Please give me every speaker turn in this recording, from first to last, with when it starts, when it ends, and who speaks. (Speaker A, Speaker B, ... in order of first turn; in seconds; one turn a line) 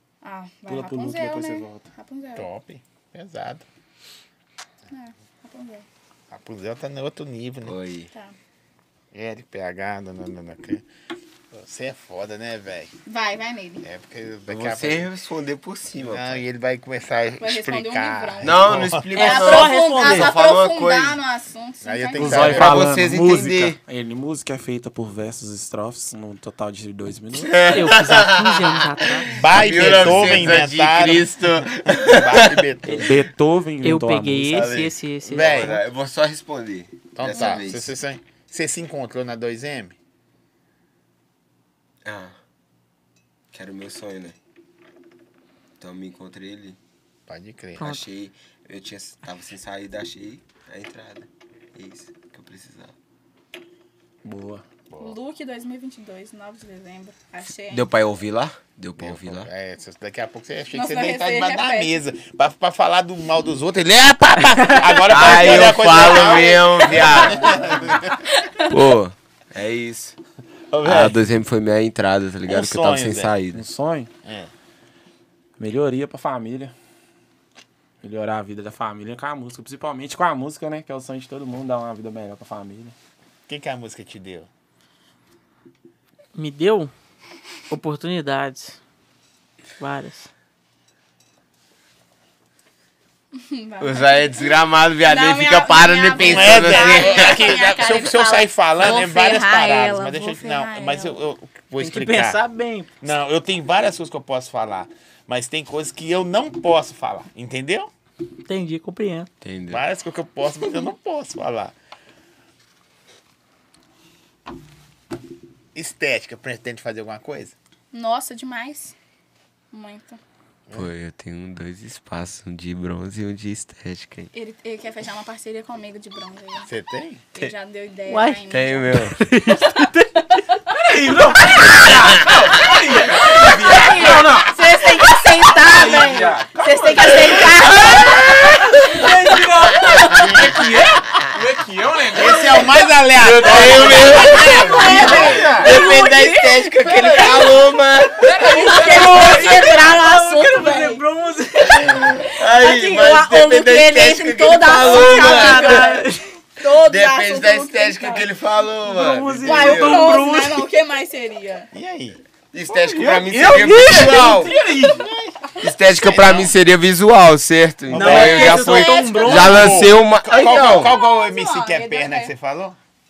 Speaker A: 0.2-2.5
Speaker B: 0.7-1.9
Speaker C: 2.4-3.6
Speaker A: 4.9-5.8
Speaker C: 6.3-7.8
Speaker D: 7.7-8.1
Speaker C: 9.1-10.8
Speaker C: 11.5-12.9
Speaker A: 13.1-13.8
Speaker C: 13.8-15.1
Speaker D: 14.5-16.4
Speaker C: 16.1-19.1
Speaker A: 17.4-22.6
Speaker D: 18.4-21.2
Speaker E: 19.1-20.3
Speaker C: 21.8-22.9
Speaker B: 22.2-27.7
Speaker D: 22.3-23.8
Speaker D: 27.3-33.0
Speaker E: 27.6-29.4
Speaker C: 29.3-33.1
Speaker B: 32.9-34.7
Speaker E: 33.8-35.8
Speaker D: 34.5-37.9
Speaker C: 35.3-35.8
Speaker C: 37.1-39.9
Speaker A: 37.3-37.6
Speaker D: 42.0-42.3
Speaker D: 43.5-44.3
Speaker D: 45.8-46.8
Speaker C: 47.3-47.9
Speaker D: 47.8-52.9
Speaker B: 54.2-54.6
Speaker C: 54.9-55.1
Speaker A: 55.0-57.9
Speaker D: 57.7-59.5
Speaker C: 59.0-68.1
Speaker A: 60.7-62.0
Speaker E: 64.5-65.0
Speaker D: 65.0-67.9
Speaker A: 65.8-68.7
Speaker D: 68.6-70.2
Speaker C: 70.7-71.2
Speaker D: 70.8-73.6
Speaker C: 72.5-73.3
Speaker B: 73.5-74.1
Speaker C: 74.2-74.5
Speaker B: 75.6-76.7
Speaker B: 78.0-83.0
Speaker C: 83.5-84.5
Speaker E: 86.3-86.9
Speaker E: 87.7-88.8
Speaker E: 89.8-90.3
Speaker A: 93.3-101.2
Speaker D: 93.8-97.5
Speaker C: 96.2-102.4
Speaker E: 101.8-102.9
Speaker C: 103.0-107.9
Speaker E: 108.5-109.3
Speaker D: 109.4-109.8
Speaker C: 109.7-111.7
Speaker C: 115.7-117.5
Speaker A: 117.9-119.0
Speaker A: 119.7-120.2
Speaker D: 120.7-124.3
Speaker A: 124.3-126.7
Speaker C: 126.7-127.2
Speaker A: 127.3-129.9
Speaker E: 128.1-128.5
Speaker D: 128.5-129.2
Speaker E: 129.0-130.4
Speaker B: 130.8-134.6
Speaker D: 131.6-132.5
Speaker A: 133.1-140.3
Speaker B: 135.6-138.2
Speaker D: 137.3-138.7
Speaker B: 138.9-142.7
Speaker D: 140.0-140.5
Speaker C: 140.2-140.5
Speaker C: 142.1-145.8
Speaker D: 143.2-149.3
Speaker B: 143.4-145.8
Speaker A: 144.1-146.1
Speaker E: 144.8-147.3
Speaker A: 146.8-151.0
Speaker E: 148.5-152.2
Speaker B: 148.9-149.4
Speaker D: 151.7-155.9
Speaker A: 151.7-158.3
Speaker E: 152.9-156.3
Speaker D: 156.8-160.2
Speaker B: 158.8-160.1
Speaker E: 159.0-160.6
Speaker A: 159.4-161.7
Speaker C: 161.7-162.2
Speaker D: 162.5-164.5
Speaker B: 162.7-165.1
Speaker D: 165.6-170.9
Speaker C: 165.7-166.5
Speaker C: 167.9-172.8
Speaker E: 167.9-169.8
Speaker A: 168.7-169.4
Speaker A: 170.4-172.3